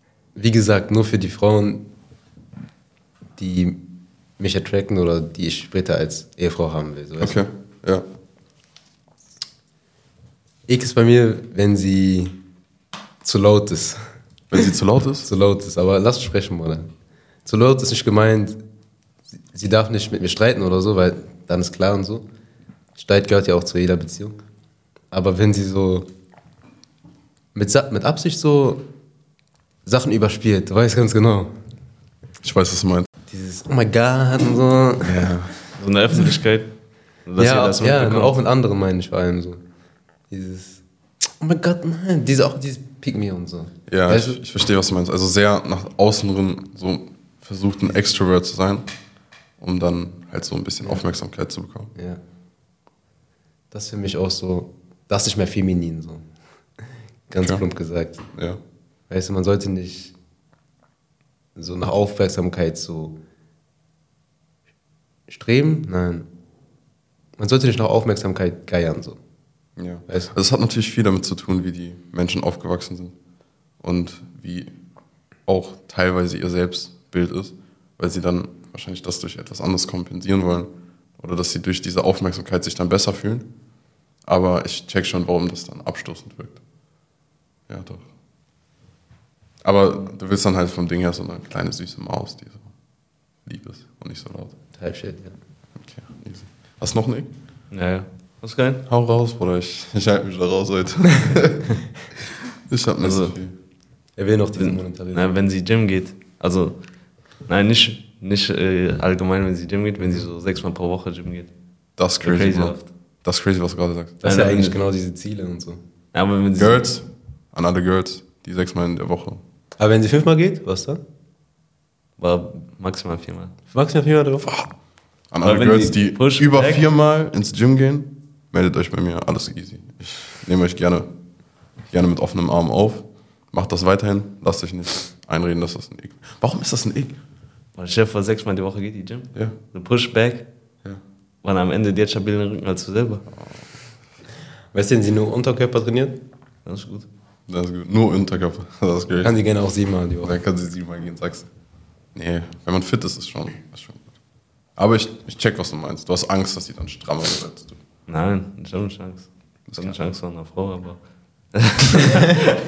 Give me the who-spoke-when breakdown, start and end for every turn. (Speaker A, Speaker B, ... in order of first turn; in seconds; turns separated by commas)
Speaker A: 0.3-1.8, Speaker A: 3.4-3.8, Speaker A: 4.4-7.4, Speaker B: 7.2-8.0, Speaker A: 10.7-12.4, Speaker A: 13.2-14.0, Speaker B: 14.5-15.3, Speaker A: 15.2-16.9, Speaker A: 17.4-18.6, Speaker A: 19.5-22.2, Speaker A: 22.9-24.4, Speaker A: 25.1-26.1, Speaker A: 27.5-28.8, Speaker A: 29.8-31.5, Speaker B: 32.4-33.1, Speaker A: 33.3-35.2, Speaker B: 35.0-35.5, Speaker C: 35.8-36.7, Speaker C: 37.2-38.3, Speaker A: 37.4-39.6, Speaker A: 40.3-40.8, Speaker A: 41.4-44.4, Speaker B: 43.9-48.9, Speaker B: 49.6-51.9, Speaker A: 51.9-52.2, Speaker A: 53.7-56.2, Speaker A: 57.3-58.2, Speaker B: 58.3-58.6, Speaker A: 59.1-60.1, Speaker A: 61.5-63.1, Speaker A: 65.3-66.3, Speaker A: 67.4-69.2, Speaker B: 69.8-73.1, Speaker A: 70.1-70.3, Speaker B: 73.8-74.7, Speaker B: 75.5-83.5, Speaker B: 84.2-86.6, Speaker B: 87.7-88.0, Speaker B: 89.6-92.7, Speaker B: 93.5-94.5, Speaker A: 94.8-95.3, Speaker B: 95.8-97.3, Speaker C: 97.7-98.8, Speaker B: 98.8-103.5, Speaker C: 103.0-103.4, Speaker A: 104.2-105.4, Speaker C: 104.6-106.8, Speaker C: 107.5-111.5, Speaker B: 112.0-114.2, Speaker C: 112.2-112.9, Speaker A: 114.2-115.8, Speaker C: 114.2-114.8, Speaker C: 116.1-116.8, Speaker B: 116.5-119.4, Speaker A: 119.8-121.0, Speaker C: 122.2-123.5, Speaker A: 123.7-124.5, Speaker B: 124.4-124.7, Speaker B: 125.3-131.1, Speaker C: 125.4-126.8, Speaker B: 131.9-137.2, Speaker C: 137.7-140.4, Speaker C: 141.4-143.2, Speaker A: 144.7-146.2, Speaker C: 146.7-147.1, Speaker B: 147.5-149.3, Speaker A: 149.2-150.3, Speaker B: 150.2-151.5, Speaker B: 152.1-154.1, Speaker B: 154.8-157.8, Speaker C: 158.1-161.0, Speaker B: 159.7-160.0, Speaker C: 161.5-162.6